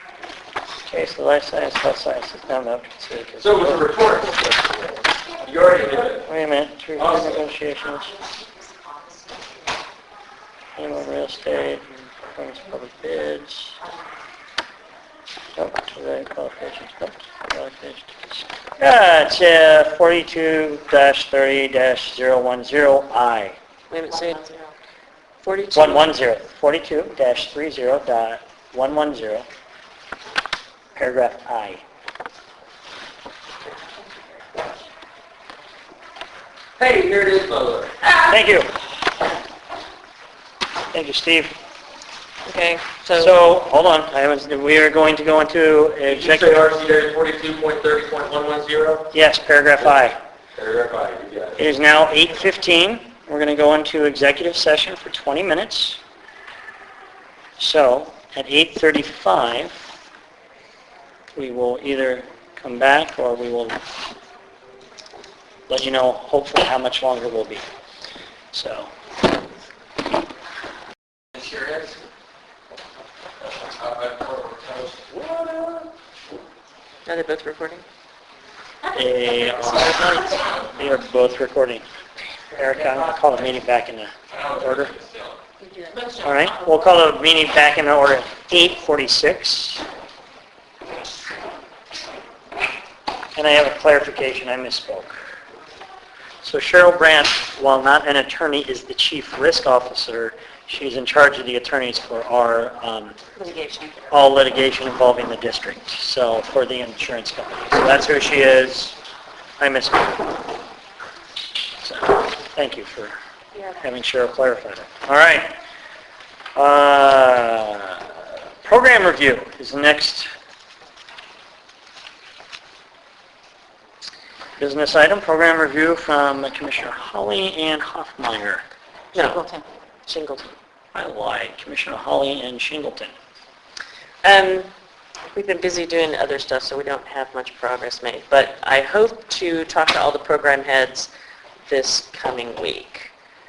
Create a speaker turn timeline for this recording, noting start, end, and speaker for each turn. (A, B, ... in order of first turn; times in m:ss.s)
0:00.8-0:03.9 A
0:03.4-0:06.2 B
0:06.2-0:08.1 A
0:07.0-0:07.4 B
0:07.7-0:09.8 C
0:10.8-0:13.8 A
0:15.6-0:23.6 A
0:23.9-0:24.7 D
0:25.4-0:26.1 D
0:25.7-0:29.4 A
0:31.0-0:31.8 A
0:36.8-0:38.0 B
0:38.2-0:38.7 A
0:40.9-0:41.6 A
0:42.4-0:43.3 D
0:43.1-0:46.6 A
0:46.1-0:49.1 B
0:49.1-0:50.2 A
0:50.6-0:51.6 B
0:51.6-0:56.0 A
0:57.6-0:59.8 A
1:01.3-1:03.8 A
1:05.7-1:07.6 A
1:08.5-1:08.9 A
1:11.3-1:11.9 B
1:13.7-1:15.9 B
1:17.0-1:17.8 D
1:18.9-1:21.8 A
1:22.5-1:24.9 A
1:24.3-1:25.4 B
1:25.8-1:26.1 C
1:26.2-1:29.8 A
1:33.4-1:35.2 A
1:36.4-1:43.2 A
1:43.4-1:44.1 C
1:44.1-1:49.0 A
1:49.6-1:50.4 A
1:51.8-1:53.1 A
1:53.8-1:55.5 A
1:56.6-2:00.3 A
2:04.6-2:08.6 A
2:09.1-2:10.5 D
2:10.9-2:13.1 A
2:14.2-2:14.7 D
2:15.3-2:21.1 D
2:21.7-2:23.1 D